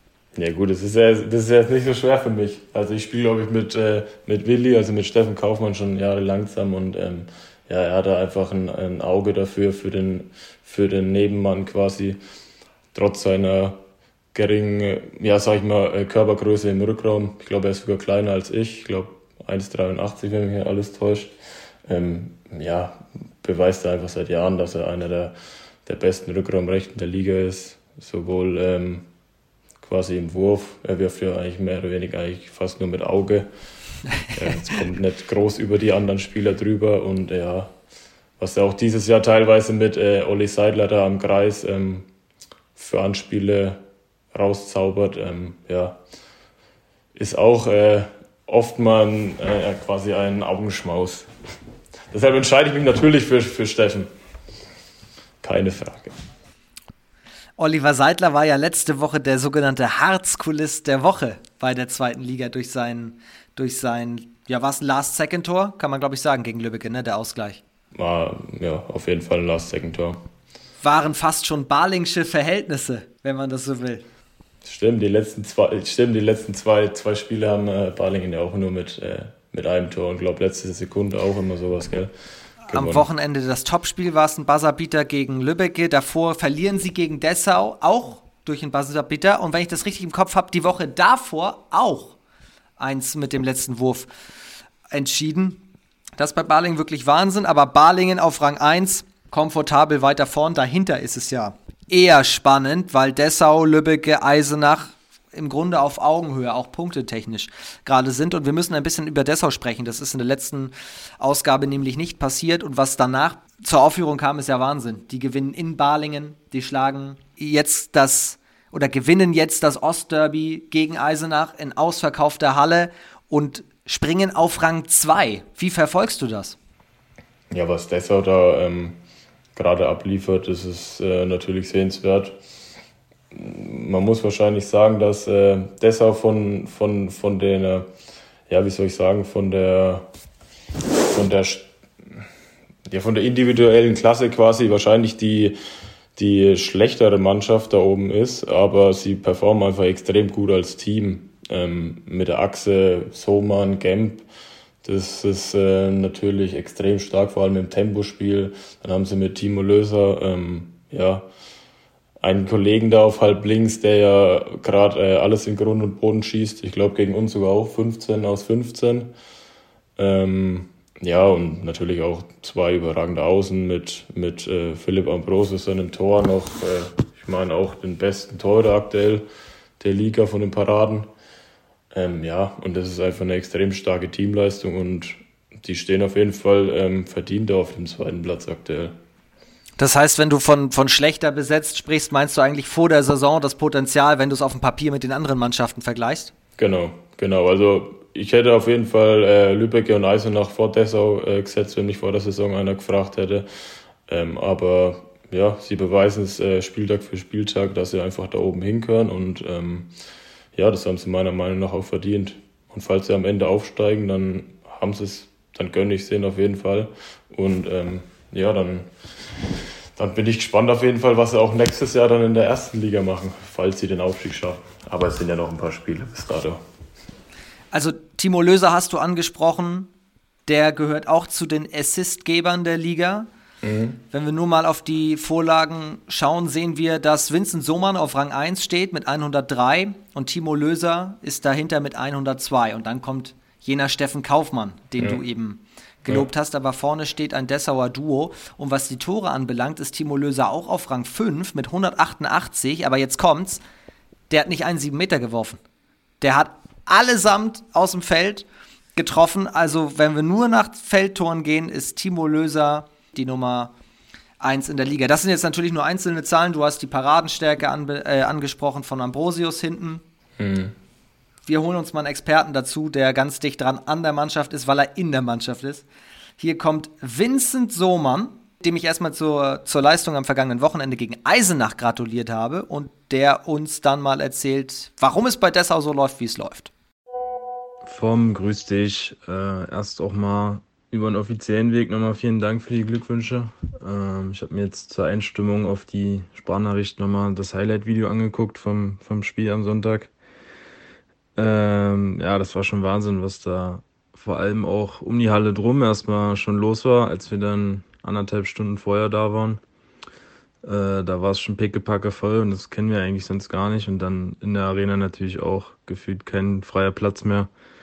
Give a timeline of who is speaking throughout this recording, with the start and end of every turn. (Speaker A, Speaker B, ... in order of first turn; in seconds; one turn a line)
Speaker A: 0.3-12.2
Speaker A: 12.9-13.8
Speaker A: 14.3-21.3
Speaker A: 21.9-25.3
Speaker A: 25.9-29.1
Speaker A: 29.8-33.5
Speaker A: 34.3-37.7
Speaker A: 38.4-42.1
Speaker A: 42.8-43.8
Speaker A: 44.3-46.0
Speaker A: 47.1-51.3
Speaker A: 52.1-54.1
Speaker A: 55.4-56.1
Speaker B: 57.6-67.6
Speaker A: 67.9-70.2
Speaker B: 70.8-74.0
Speaker A: 74.6-82.1
Speaker B: 82.7-92.2
Speaker A: 82.7-83.1
Speaker B: 92.8-94.1
Speaker B: 94.9-95.6
Speaker B: 96.2-126.6
Speaker A: 127.5-129.0
Speaker A: 129.6-132.4
Speaker A: 133.3-137.9
Speaker A: 138.5-140.1
Speaker A: 141.1-142.2
Speaker A: 142.9-145.6
Speaker A: 146.2-154.2
Speaker A: 154.8-161.3
Speaker A: 162.2-169.1
Speaker A: 170.0-179.3
Speaker A: 179.8-181.1
Speaker A: 181.9-189.0
Speaker B: 189.8-196.3
Speaker A: 196.6-203.5
Speaker A: 204.1-209.9
Speaker A: 210.6-218.9
Speaker A: 220.0-226.6
Speaker B: 227.7-229.9
Speaker B: 230.5-233.3
Speaker A: 233.6-234.0
Speaker B: 234.1-253.6
Speaker B: 254.3-255.6
Speaker B: 256.2-263.7
Speaker B: 264.4-270.0
Speaker A: 270.4-270.8
Speaker B: 271.5-275.9
Speaker B: 276.4-286.7
Speaker C: 287.9-300.1
Speaker C: 301.4-309.6
Speaker C: 310.6-317.5